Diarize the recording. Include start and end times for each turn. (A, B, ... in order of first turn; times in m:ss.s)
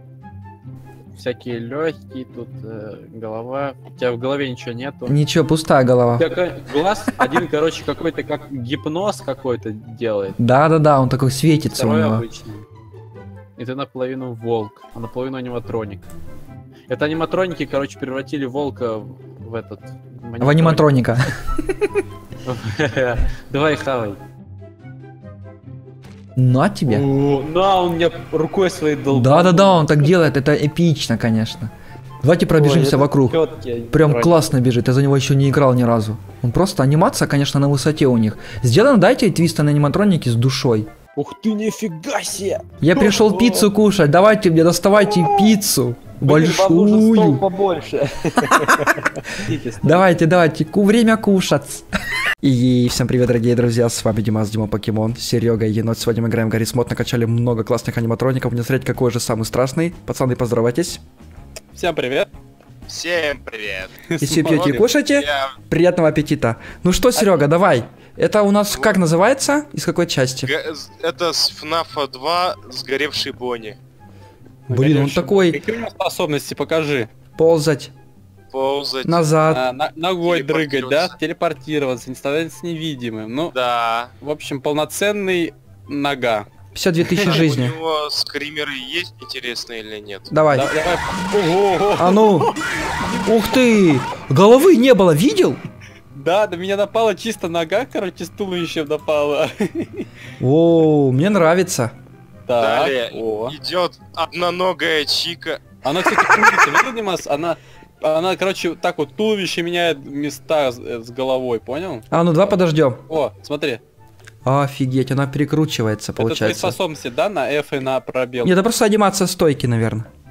0:01.1-0:05.2 A
0:05.1-0:06.3 B
0:06.2-0:10.4 A
0:10.4-0:12.3 B
0:11.7-0:12.6 A
0:13.6-0:16.0 A
0:16.9-0:20.9 A
0:20.4-0:21.9 B
0:22.5-0:24.2 A
0:26.4-0:27.1 B
0:26.9-0:29.9 A
0:29.1-0:31.7 B
0:32.2-0:33.4 B
0:32.6-0:34.4 A
0:33.9-0:40.9 B
0:41.2-0:43.7 A
0:42.8-0:47.5 B
0:45.0-0:45.6 A
0:46.2-0:50.1 A
0:48.4-0:48.9 B
0:49.8-0:51.9 B
0:52.4-1:01.0 B
1:01.7-1:02.3 A
1:02.9-1:05.5 C
1:04.1-1:04.9 A
1:04.2-1:10.5 B
1:07.2-1:07.5 A
1:10.5-1:13.8 C
1:14.7-1:15.6 B
1:14.7-1:17.1 A
1:17.4-1:17.9 B
1:18.5-1:19.3 C
1:19.0-1:19.6 B
1:19.5-1:23.5 A
1:20.2-1:21.1 C
1:23.5-1:24.1 C
1:24.2-1:26.5 A
1:26.7-1:27.8 B
1:27.1-1:27.4 A
1:27.2-1:30.3 C
1:30.3-1:30.7 B
1:30.5-1:33.6 A
1:32.0-1:32.6 B
1:33.2-1:35.6 B
1:36.1-1:40.1 A
1:40.4-1:41.9 B
1:42.5-1:43.6 A
1:42.6-1:45.8 C
1:45.8-1:52.1 A
1:52.1-1:53.0 B
1:53.1-1:53.8 A
1:54.4-1:56.8 B
1:56.2-1:58.6 A
1:58.4-2:00.1 B